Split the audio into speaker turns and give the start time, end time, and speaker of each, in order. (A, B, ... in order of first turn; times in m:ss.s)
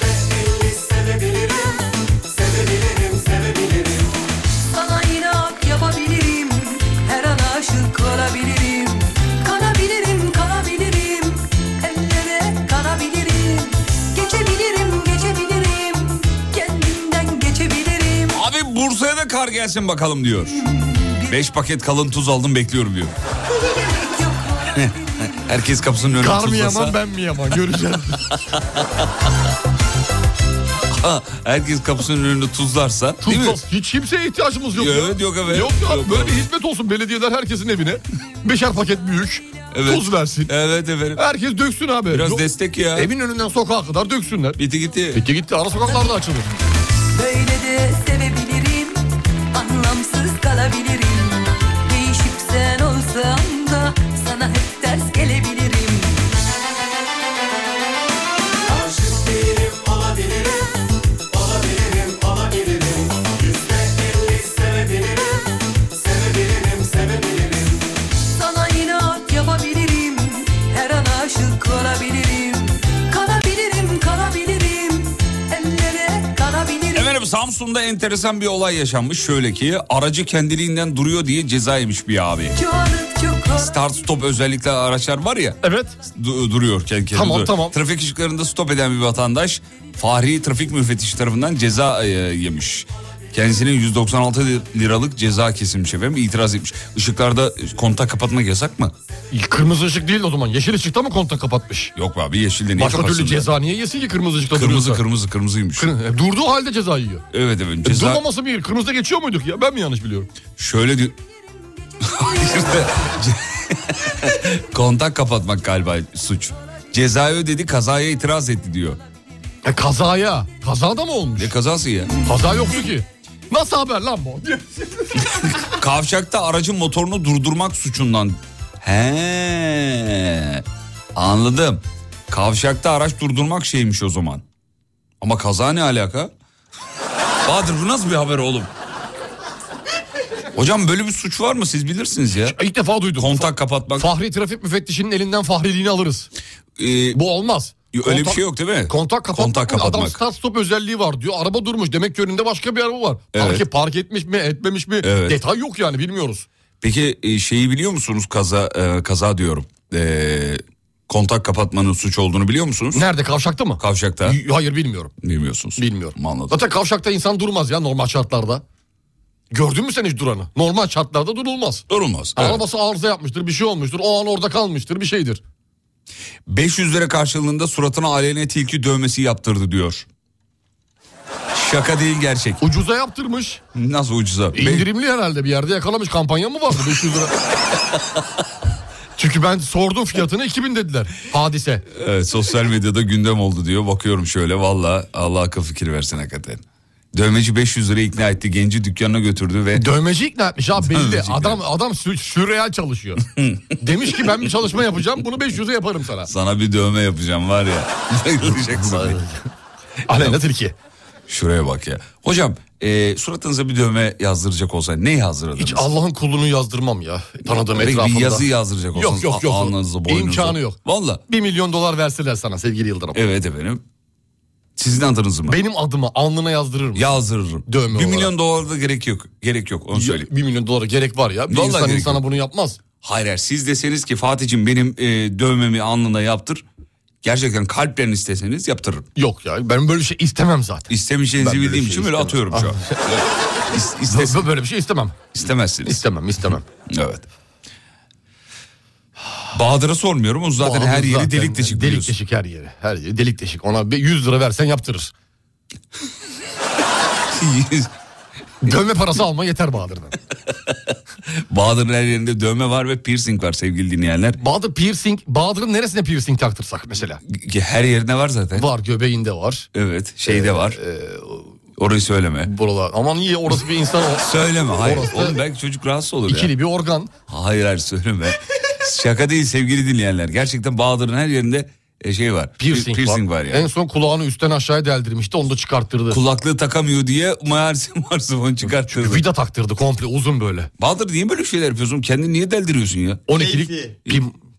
0:04.7-0:18.3 A
0:18.3-0:20.6 B
0:20.8-0:21.3 A
0:21.3-0:23.1 B
0:24.0-0:25.4 A
0:24.7-0:27.0 B
0:26.2-0:28.3 C
0:28.3-0:28.8 B
0:30.9-0:33.6 B
0:33.2-0:40.5 C
0:34.8-0:36.4 B
0:39.7-0:41.2 B
0:41.1-0:44.6 C
0:42.1-0:43.1 B
0:44.6-0:45.2 B
0:45.1-0:46.5 C
0:47.2-0:48.8 A
0:49.6-0:51.4 A
0:51.9-0:56.1 A
1:08.4-1:10.9 A
1:11.5-1:12.0 A
1:13.1-1:13.4 A
1:15.5-1:16.4 A
1:16.9-1:22.6 B
1:22.6-1:23.7 A
1:23.5-1:25.6 B
1:25.6-1:26.0 C
1:26.1-1:38.9 B
1:27.1-1:27.8 C
1:39.3-1:41.9 C
1:42.0-1:43.5 B
1:42.8-1:45.0 C
1:44.5-1:45.9 B
1:45.8-1:47.2 C
1:47.3-1:48.2 B
1:47.8-1:50.3 C
1:50.5-1:51.2 B
1:52.0-1:59.0 B
1:59.6-2:01.5 C
2:01.4-2:02.1 B
2:02.2-2:05.3 C
2:05.4-2:10.6 B
2:11.2-2:14.4 B
2:15.2-2:16.3 B
2:17.4-2:18.7 B
2:20.5-2:22.5 B
2:22.4-2:26.3 C
2:23.2-2:24.1 B
2:26.8-2:27.2 B
2:27.1-2:36.5 C
2:27.9-2:30.2 B
2:33.3-2:33.6 B
2:35.0-2:35.4 B
2:36.8-2:43.0 B
2:42.9-2:45.1 C
2:43.8-2:44.4 B
2:45.2-2:46.6 B
2:45.8-2:48.6 C
2:49.5-2:51.8 C
2:51.9-2:52.6 B
2:52.4-2:55.4 C
2:56.5-3:00.0 B
3:01.5-3:02.6 B
3:02.6-3:03.6 C
3:03.7-3:04.9 B
3:04.5-3:07.3 C
3:09.2-3:11.8 C
3:11.9-3:16.6 B
3:17.1-3:19.9 B
3:19.7-3:23.2 C
3:20.8-3:21.6 B
3:23.4-3:23.6 B
3:23.8-3:26.3 C
3:26.3-3:29.2 B
3:28.5-3:29.4 C
3:30.1-3:30.7 C
3:31.3-3:35.8 B
3:35.6-3:43.2 C
3:37.8-3:41.2 B
3:43.1-3:43.8 B
3:44.8-3:45.6 B
3:45.5-3:47.1 C
3:46.9-3:50.3 B
3:47.6-3:48.3 C
3:49.9-3:52.8 C
3:51.5-3:52.2 B
3:53.0-3:56.6 B
3:57.2-3:59.0 B
3:59.2-4:03.0 C
4:00.9-4:04.4 B
4:04.1-4:05.3 C
4:05.3-4:06.0 B
4:05.8-4:06.6 C
4:06.9-4:07.2 B
4:09.5-4:12.1 B
4:10.6-4:15.1 C
4:17.3-4:17.9 B
4:18.6-4:20.2 C
4:21.5-4:24.4 B
4:24.4-4:27.2 C
4:27.3-4:28.6 B
4:28.5-4:29.7 C
4:29.7-4:30.8 B
4:30.3-4:31.5 C
4:31.8-4:32.5 B
4:32.4-4:35.4 C
4:34.2-4:36.5 B
4:36.3-4:37.1 C
4:37.3-4:43.7 B
4:42.6-4:46.2 C
4:46.1-4:49.2 B
4:48.8-4:50.7 C
4:50.8-4:53.2 B
4:53.3-4:54.3 C